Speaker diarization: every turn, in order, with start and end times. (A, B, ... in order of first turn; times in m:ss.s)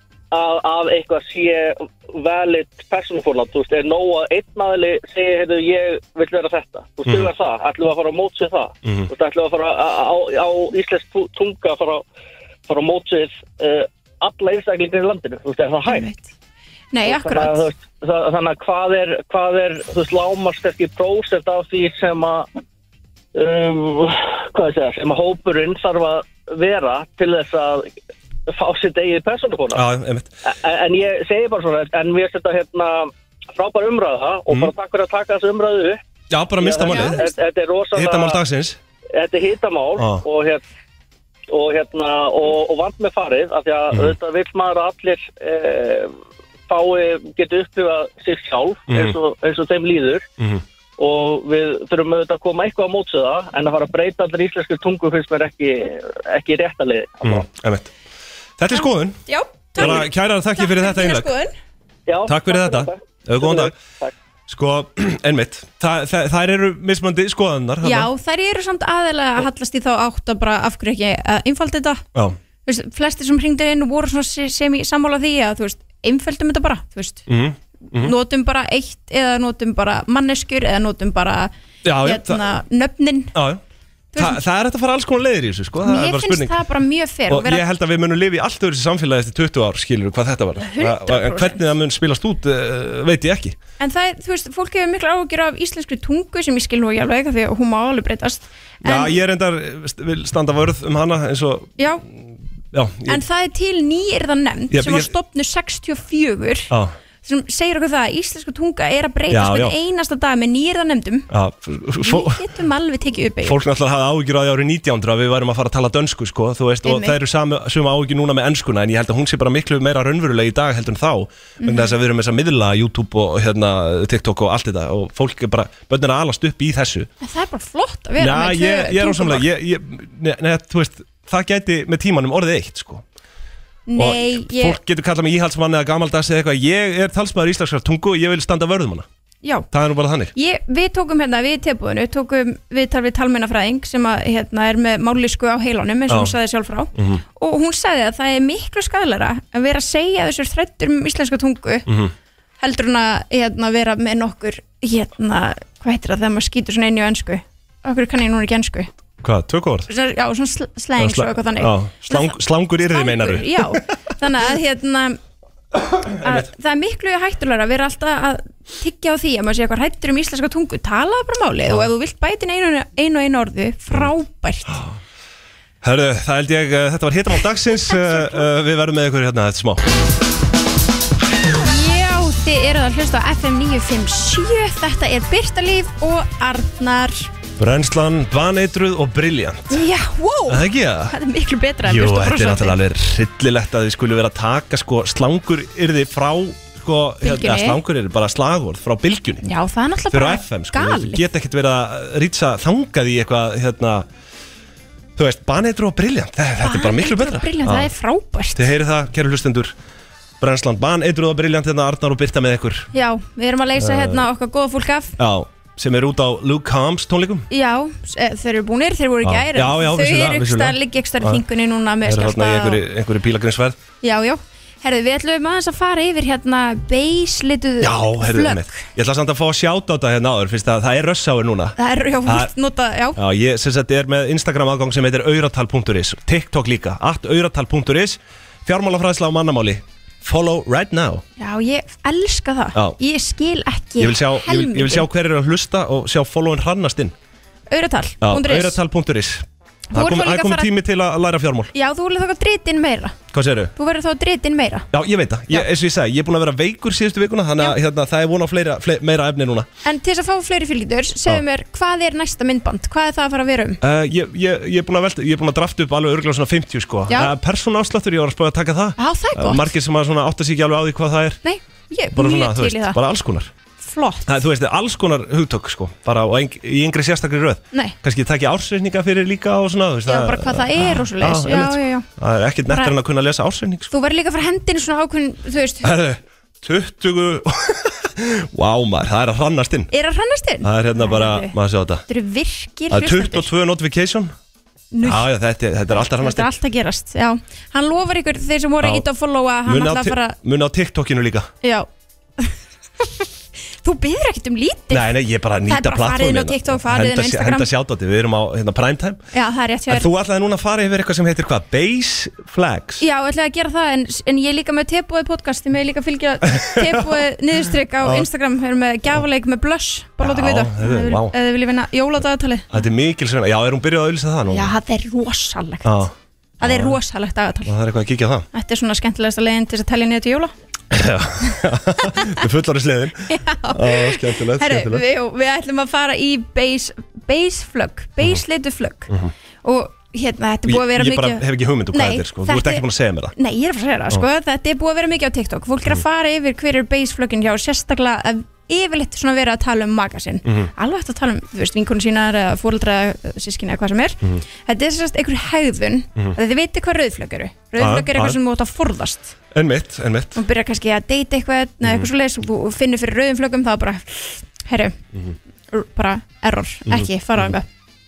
0:00.3-0:12.0 A
0:08.8-0:09.1 B
0:12.7-0:16.1 A
0:15.9-0:16.3 C
0:16.9-0:17.6 C
0:17.0-0:22.5 A
0:23.3-0:27.9 A
0:28.5-0:29.8 A
0:29.7-0:30.3 B
0:30.4-0:36.0 A
0:36.3-0:37.2 B
0:36.6-0:38.4 A
0:36.9-0:37.3 C
0:37.9-0:38.8 B
0:39.1-0:40.6 A
0:40.0-0:40.2 B
0:41.5-0:46.1 A
0:46.7-0:50.2 A
0:48.9-0:49.1 B
0:51.0-0:57.4 A
0:57.2-0:57.9 B
0:58.6-0:59.2 B
0:58.7-1:01.5 C
0:59.8-1:01.3 B
1:02.1-1:04.1 A
1:02.3-1:03.7 B
1:04.5-1:08.1 B
1:07.8-1:12.0 C
1:12.6-1:17.3 C
1:17.3-1:18.1 B
1:17.9-1:23.3 C
1:21.8-1:22.4 B
1:23.3-1:23.6 B
1:24.1-1:24.4 C
1:24.2-1:26.6 B
1:25.8-1:27.7 C
1:27.3-1:33.6 B
1:30.6-1:31.6 C
1:33.8-1:39.1 C
1:38.8-1:43.2 B
1:41.8-1:42.0 C
1:43.1-1:46.7 C
1:44.7-1:45.1 B
1:47.2-1:51.3 C
1:49.3-1:49.7 B
1:51.3-1:52.4 B
1:52.0-1:53.6 C
1:53.4-2:07.1 B
1:56.8-1:57.2 C
2:01.6-2:01.9 C
2:07.2-2:09.4 C
2:08.2-2:13.0 B
2:13.9-2:14.8 C
2:14.0-2:19.1 B
2:19.7-2:20.3 B
2:20.3-2:31.9 C
2:26.1-2:26.3 B
2:27.0-2:27.2 B
2:31.9-2:32.1 B
2:32.6-2:38.9 C
2:39.2-2:39.9 B
2:39.9-2:42.3 C
2:41.0-2:43.8 B
2:42.9-2:45.2 C
2:46.1-2:46.5 B
2:46.2-2:54.8 C
2:54.7-2:55.0 B
2:55.8-2:59.8 B
2:57.9-2:58.4 C
3:01.6-3:07.3 C
3:07.6-3:09.8 B
3:09.7-3:12.8 C
3:10.5-3:11.1 B
3:11.8-3:19.4 B
3:17.2-3:17.8 C
3:19.4-3:21.2 C
3:20.1-3:24.1 B
3:25.2-3:27.9 B
3:26.6-3:28.7 C
3:28.5-3:29.7 B
3:30.4-3:32.9 B
3:32.9-3:35.2 C
3:33.8-3:34.2 B
3:35.2-3:37.5 B
3:37.5-3:42.8 C
3:39.2-3:41.4 B
3:42.0-3:43.8 B
3:44.0-3:48.8 C
3:47.8-3:52.5 B
3:51.8-3:53.2 C
3:53.2-4:01.2 B
4:01.4-4:05.1 C
4:04.0-4:07.1 B
4:07.7-4:08.8 C
4:08.2-4:11.7 B
4:09.9-4:10.7 C
4:11.7-4:13.2 C
4:13.3-4:13.7 B
4:13.8-4:14.9 C
4:14.9-4:19.7 B
4:19.8-4:23.8 C
4:23.8-4:31.4 B
4:27.1-4:27.3 C
4:29.0-4:29.7 C
4:31.4-4:33.0 C
4:32.1-4:33.5 B
4:33.8-4:34.4 C
4:34.3-4:43.9 B
4:40.1-4:42.1 C
4:42.7-4:42.9 C
4:43.9-4:45.9 C
4:45.8-4:49.9 B
4:49.9-4:51.6 C
4:50.6-4:52.0 B
4:52.1-4:53.5 C
4:52.9-4:54.3 B
4:54.9-4:55.3 C
4:55.0-4:56.5 B
4:55.9-5:00.4 C
4:59.6-5:01.5 B
5:01.6-5:01.9 C
5:02.4-5:03.2 C
5:03.8-5:05.1 C
5:04.9-5:09.2 B
5:05.7-5:07.7 C
5:09.3-5:10.1 C
5:09.9-5:13.0 B
5:13.0-5:22.7 C
5:16.5-5:17.1 B
5:18.0-5:18.3 B
5:20.2-5:21.3 B
5:22.7-5:24.7 B
5:24.5-5:26.0 C
5:25.8-5:27.0 B
5:26.6-5:27.7 C
5:27.6-5:28.4 B
5:28.5-5:30.5 C
5:30.9-5:35.0 B
5:33.3-5:39.1 C
5:39.6-5:59.3 C
5:40.6-5:43.3 B
5:50.4-5:50.7 B
5:57.8-5:58.4 B
5:59.5-6:00.4 B
6:00.3-6:05.0 C
6:01.8-6:02.1 B
6:05.7-6:07.7 C
6:06.9-6:07.5 B